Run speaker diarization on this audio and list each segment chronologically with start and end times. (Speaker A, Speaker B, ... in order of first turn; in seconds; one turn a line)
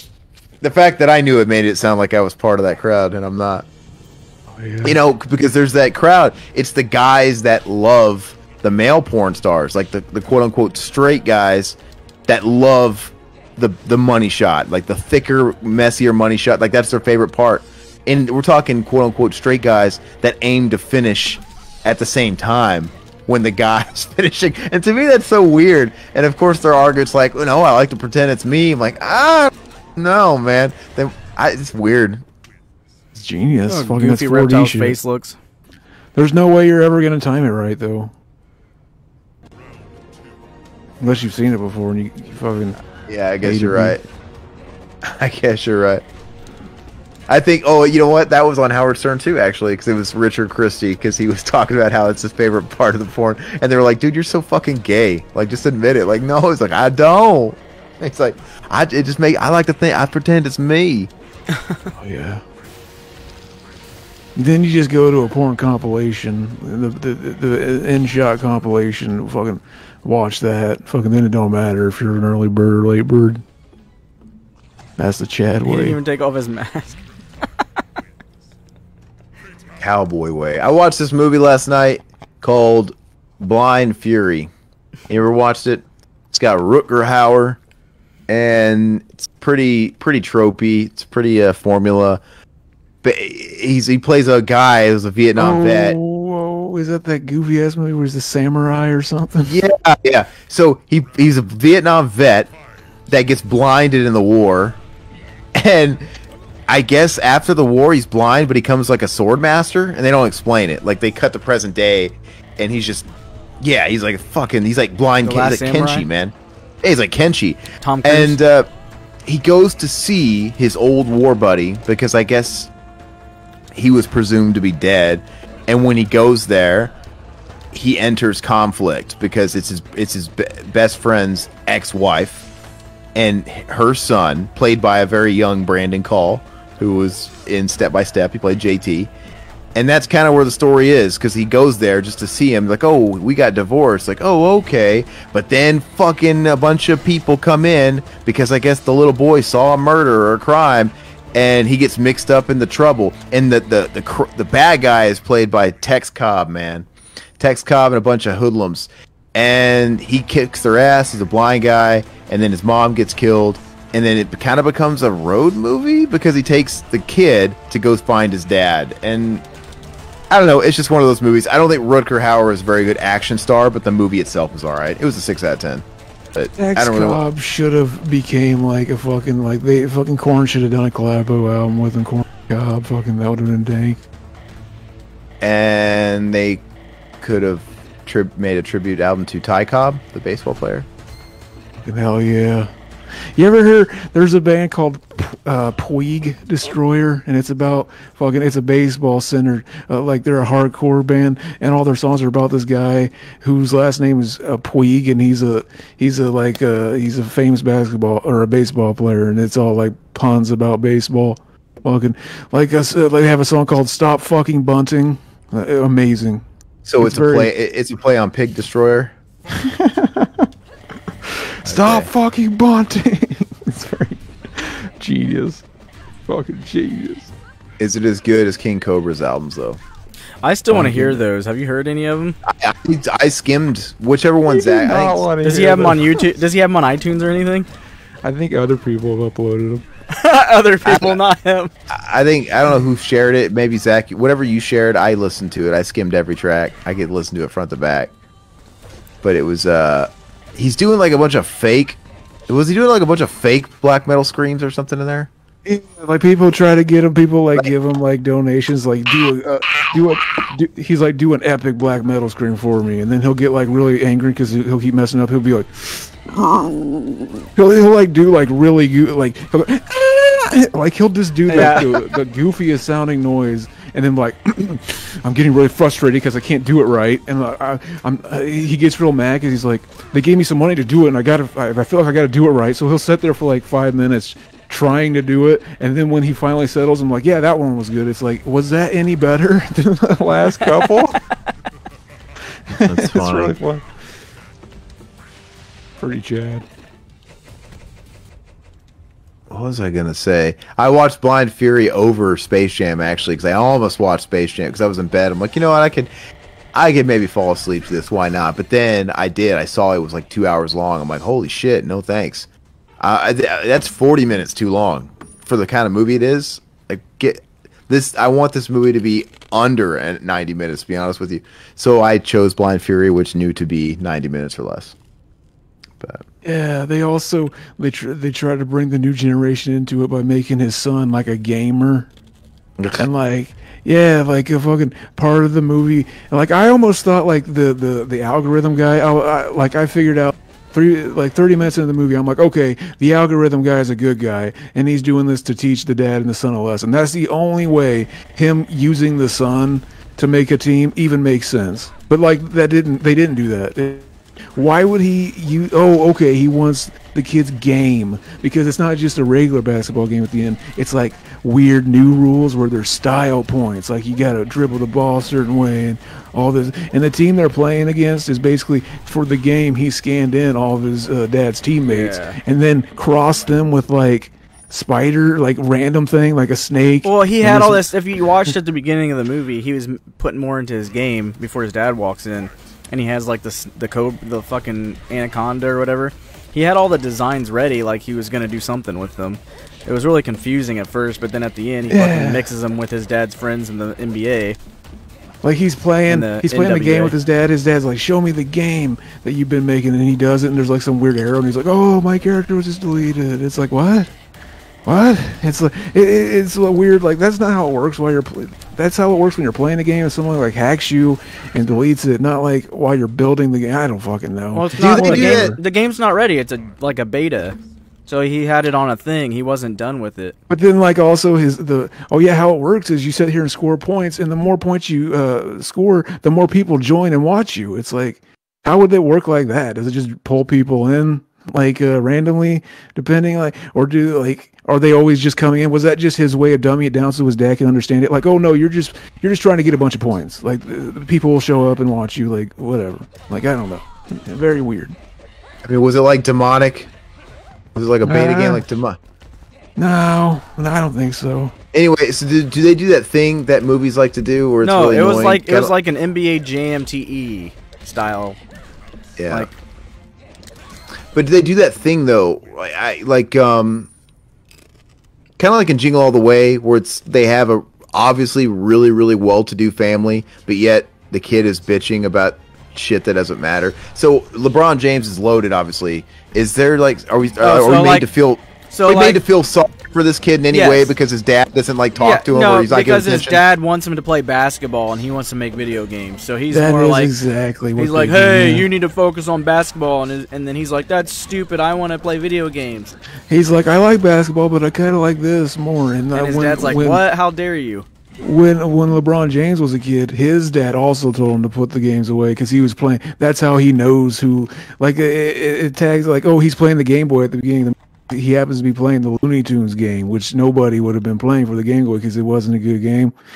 Speaker A: 0.6-3.6
Speaker B: 4.5-5.0
Speaker A: 4.8-32.2
Speaker B: 33.1-35.0
Speaker C: 33.7-35.4
Speaker B: 36.1-38.1
Speaker B: 41.0-42.8
Speaker A: 43.1-44.0
Speaker B: 43.4-44.0
Speaker A: 45.0-46.0
Speaker A: 47.3-61.1
Speaker C: 61.6-61.8
Speaker B: 62.0-62.4
Speaker B: 64.3-73.4
Speaker B: 75.0-76.0
Speaker C: 75.6-77.0
Speaker A: 79.8-84.5
Speaker A: 85.1-87.6
Speaker A: 88.3-92.2
Speaker A: 93.0-96.0
Speaker B: 95.3-99.6
Speaker A: 99.5-102.5
Speaker A: 103.1-104.8
Speaker A: 105.5-106.0
Speaker A: 106.7-113.1
Speaker A: 113.6-118.7
Speaker C: 115.2-116.1
Speaker C: 117.8-118.4
Speaker A: 119.2-122.7
Speaker A: 123.7-126.9
Speaker A: 127.7-132.5
Speaker A: 133.1-139.1
Speaker A: 139.7-156.9
Speaker A: 157.4-169.4
Speaker A: 170.3-177.2
Speaker B: 176.6-184.0
Speaker A: 185.4-186.6
Speaker A: 187.2-190.9
Speaker B: 191.8-192.7
Speaker B: 193.3-216.4
Speaker A: 216.8-219.1
Speaker B: 217.0-217.5
Speaker B: 219.5-220.5
Speaker B: 221.2-225.6
Speaker A: 221.6-222.1
Speaker B: 226.3-227.3
Speaker A: 227.8-229.8
Speaker C: 230.4-232.4
Speaker B: 230.7-231.2
Speaker A: 232.4-235.3
Speaker B: 234.5-236.2
Speaker C: 235.4-237.7
Speaker B: 238.2-239.8
Speaker C: 240.1-241.7
Speaker A: 240.8-241.2
Speaker A: 241.9-248.1
Speaker A: 249.2-255.3
Speaker B: 255.7-291.2
Speaker A: 271.5-272.0
Speaker C: 271.5-271.9
Speaker C: 290.6-291.2
Speaker B: 292.7-293.8
Speaker A: 292.9-293.6
Speaker B: 296.0-296.6
Speaker A: 299.5-306.1
Speaker A: 306.7-312.5
Speaker A: 313.0-324.9
Speaker A: 326.0-326.2
Speaker B: 326.4-332.1
Speaker A: 332.8-333.1
Speaker B: 332.9-377.9
Speaker C: 371.9-372.4
Speaker C: 377.0-394.6
Speaker B: 391.9-392.5
Speaker B: 395.4-404.1
Speaker C: 396.1-397.1
Speaker B: 404.9-415.6
Speaker C: 414.5-420.4
Speaker A: 414.8-415.6
Speaker B: 420.5-444.9
Speaker A: 445.6-446.9
Speaker A: 447.7-449.0
Speaker B: 448.0-448.6
Speaker B: 449.8-451.5
Speaker A: 451.7-455.7
Speaker C: 454.6-458.4
Speaker A: 459.2-459.5
Speaker A: 461.1-463.9
Speaker A: 465.4-483.4
Speaker C: 477.4-478.1
Speaker C: 478.7-479.2
Speaker C: 480.5-480.9
Speaker C: 481.9-487.1
Speaker B: 486.5-488.7
Speaker C: 487.8-492.9
Speaker B: 493.3-497.0
Speaker C: 496.1-497.9
Speaker B: 498.2-513.1